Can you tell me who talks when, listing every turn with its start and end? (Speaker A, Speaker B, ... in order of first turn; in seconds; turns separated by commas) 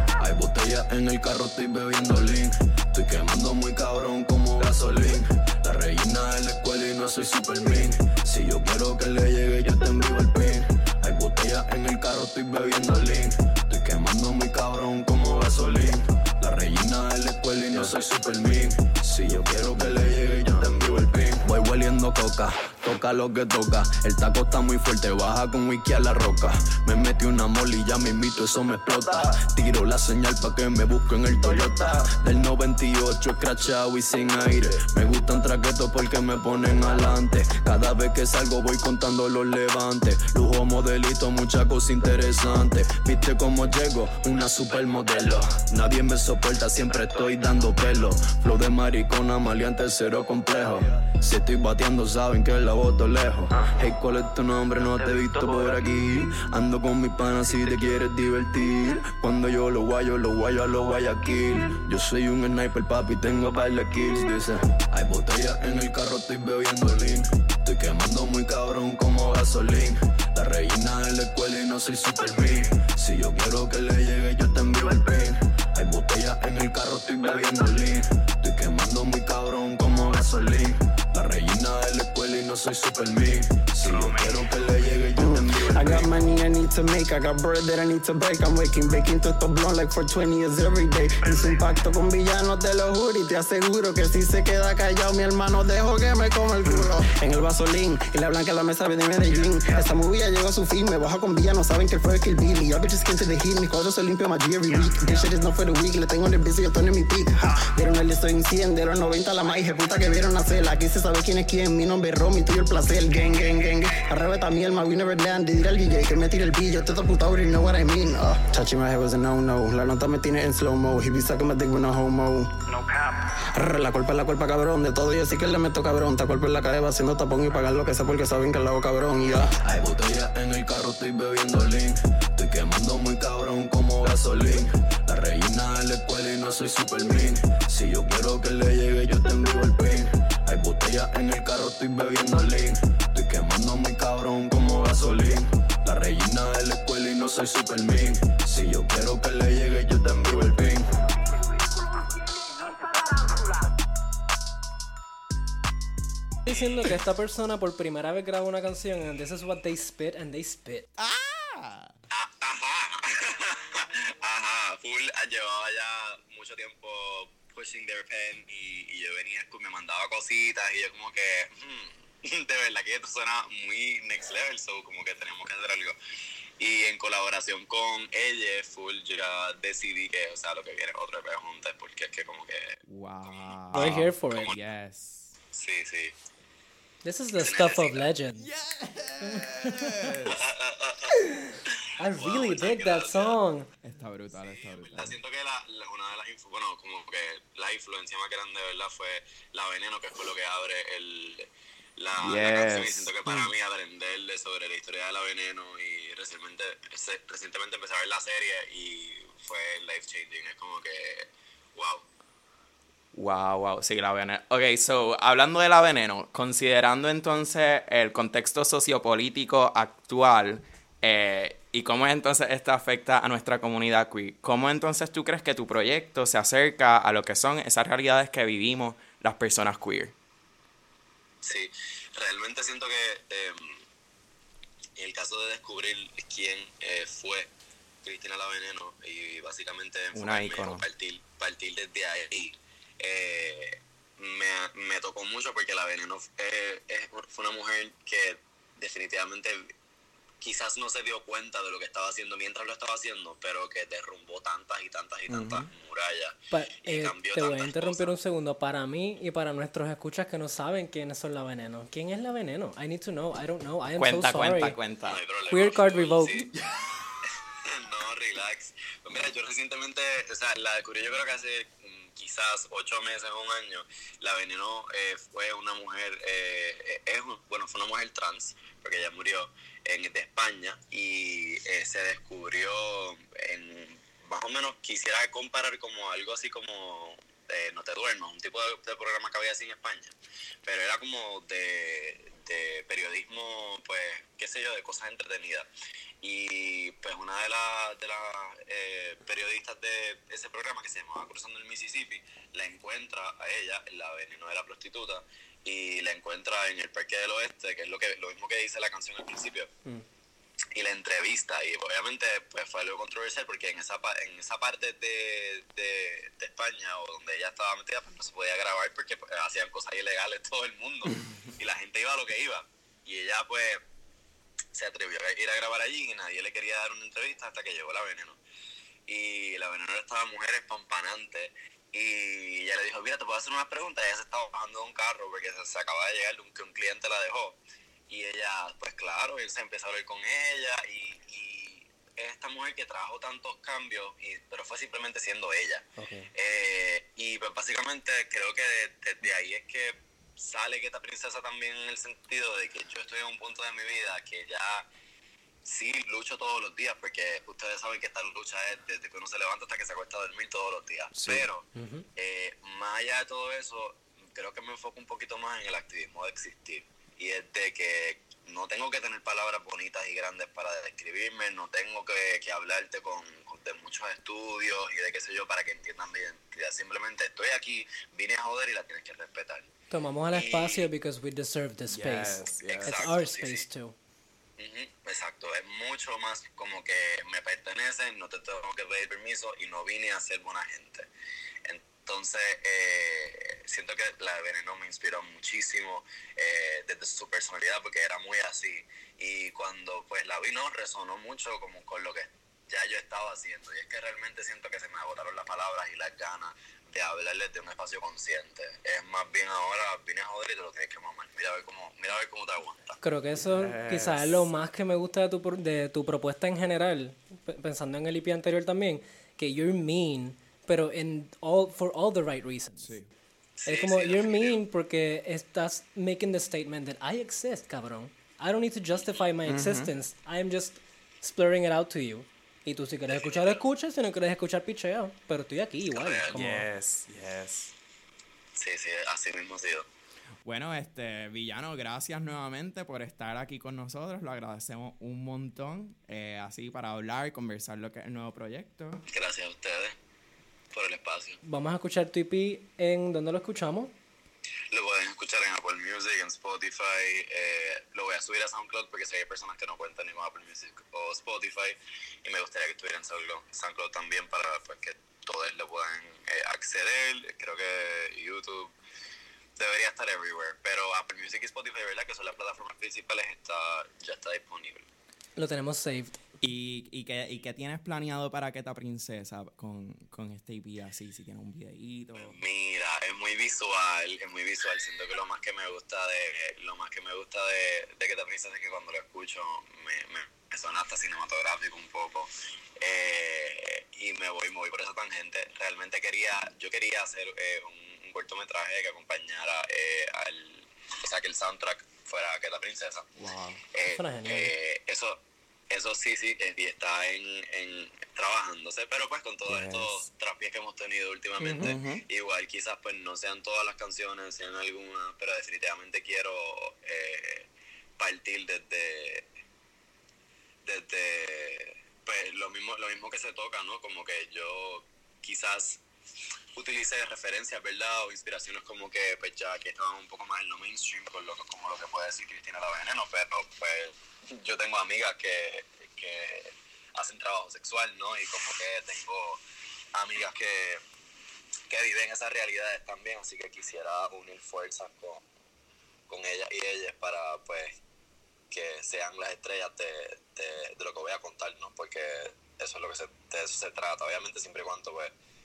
Speaker A: 0.2-86.1, Speaker B: 44.4-45.5, Speaker B: 46.9-47.9, Speaker B: 83.8-85.1, Speaker C: 85.2-122.5, Speaker B: 91.2-91.6, Speaker C: 123.5-129.5, Speaker A: 129.6-150.9, Speaker D: 156.4-160.9, Speaker E: 161.0-161.9, Speaker B: 162.1-176.0, Speaker B: 176.6-182.8, Speaker E: 182.9-185.3, Speaker D: 183.7-184.5, Speaker B: 185.5-186.1, Speaker D: 187.0-188.5, Speaker B: 187.4-188.1, Speaker E: 188.4-190.5, Speaker D: 189.2-190.0, Speaker B: 190.2-191.1, Speaker D: 192.0-193.7, Speaker B: 192.2-193.4, Speaker E: 193.8-195.2, Speaker B: 194.3-212.0, Speaker E: 202.2-203.5, Speaker E: 213.1-230.1, Speaker B: 231.4-233.8, Speaker B: 235.0-237.5, Speaker B: 238.0-249.7, Speaker E: 240.1-240.9, Speaker B: 250.4-258.1, Speaker E: 255.3-255.7, Speaker D: 256.5-264.8, Speaker E: 264.0-265.2, Speaker B: 265.0-266.5, Speaker D: 265.5-266.5, Speaker B: 267.6-290.1, Speaker B: 290.6-295.7, Speaker B: 296.2-309.7, Speaker B: 310.7-323.8, Speaker B: 324.7-328.4, Speaker B: 329.1-337.6, Speaker B: 338.1-354.9, Speaker D: 346.0-346.3, Speaker B: 355.6-379.7, Speaker D: 361.8-362.1, Speaker D: 379.9-384.0, Speaker B: 380.3-380.9, Speaker E: 381.9-383.1, Speaker B: 382.6-383.6, Speaker B: 384.6-391.1, Speaker B: 391.6-413.0, Speaker D: 413.0-423.0, Speaker E: 413.4-414.4, Speaker E: 422.8-423.1, Speaker B: 423.6-424.6, Speaker D: 423.7-436.7, Speaker B: 428.9-429.3, Speaker E: 429.4-429.9, Speaker B: 433.1-433.6, Speaker B: 435.9-436.5, Speaker E: 436.3-437.7, Speaker B: 438.6-439.9, Speaker E: 440.4-449.0, Speaker B: 449.1-450.0, Speaker B: 450.7-451.4, Speaker D: 451.4-453.9, Speaker B: 454.7-468.7, Speaker B: 469.6-474.9, Speaker D: 475.4-476.2, Speaker E: 476.4-482.4, Speaker B: 482.1-503.1, Speaker E: 503.2-503.6, Speaker B: 503.7-519.3, Speaker D: 503.9-504.5, Speaker E: 509.5-510.0, Speaker E: 511.4-512.0, Speaker B: 520.6-525.8, Speaker B: 526.5-539.4, Speaker B: 539.9-540.8, Speaker B: 541.7-545.2, Speaker B: 546.1-547.8, Speaker B: 548.5-555.1